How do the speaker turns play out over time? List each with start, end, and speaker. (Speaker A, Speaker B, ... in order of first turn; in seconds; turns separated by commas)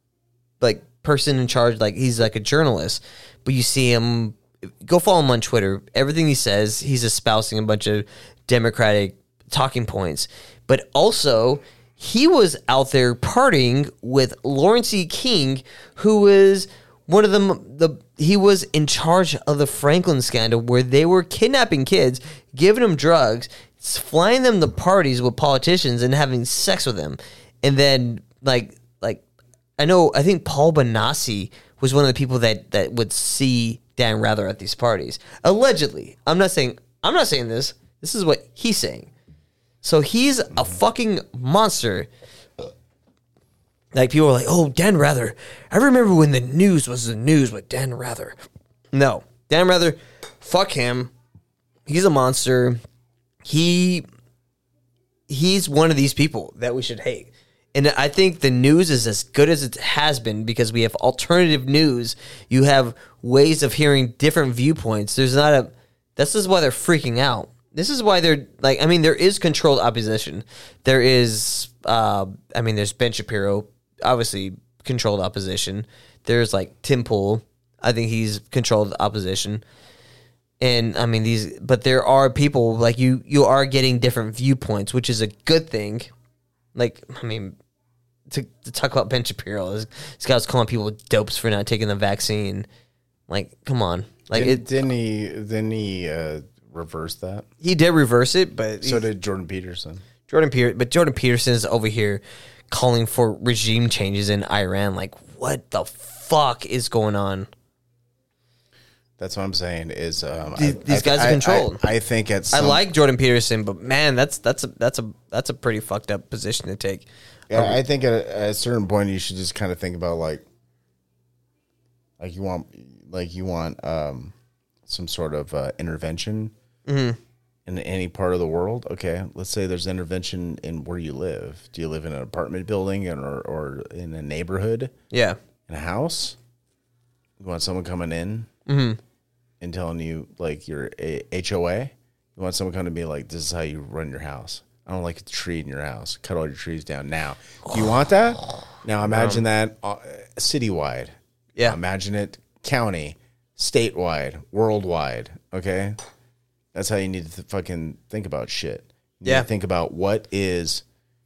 Speaker A: 0.6-29.2, Speaker A: 29.8-39.1, Speaker A: 39.8-42.1, Speaker A: 43.9-48.3, Speaker A: 48.9-51.1, Speaker A: 51.9-52.8, Speaker A: 53.4-54.0, Speaker A: 55.3-79.6, Speaker A: 80.6-86.1, Speaker A: 86.7-87.5, Speaker A: 88.3-92.7, Speaker A: 93.3-94.7, Speaker B: 94.3-97.5, Speaker A: 97.6-99.0, Speaker B: 98.8-100.0, Speaker A: 100.3-107.5, Speaker B: 109.2-112.9, Speaker A: 110.6-111.8, Speaker A: 112.5-117.8, Speaker B: 117.5-120.4, Speaker B: 122.2-124.3, Speaker B: 124.8-126.5, Speaker A: 126.8-127.2, Speaker B: 127.7-134.9, Speaker A: 135.1-135.4, Speaker B: 135.7-136.4, Speaker B: 137.4-138.5, Speaker A: 138.7-139.0, Speaker B: 139.6-156.0, Speaker A: 149.1-149.4, Speaker B: 156.7-160.8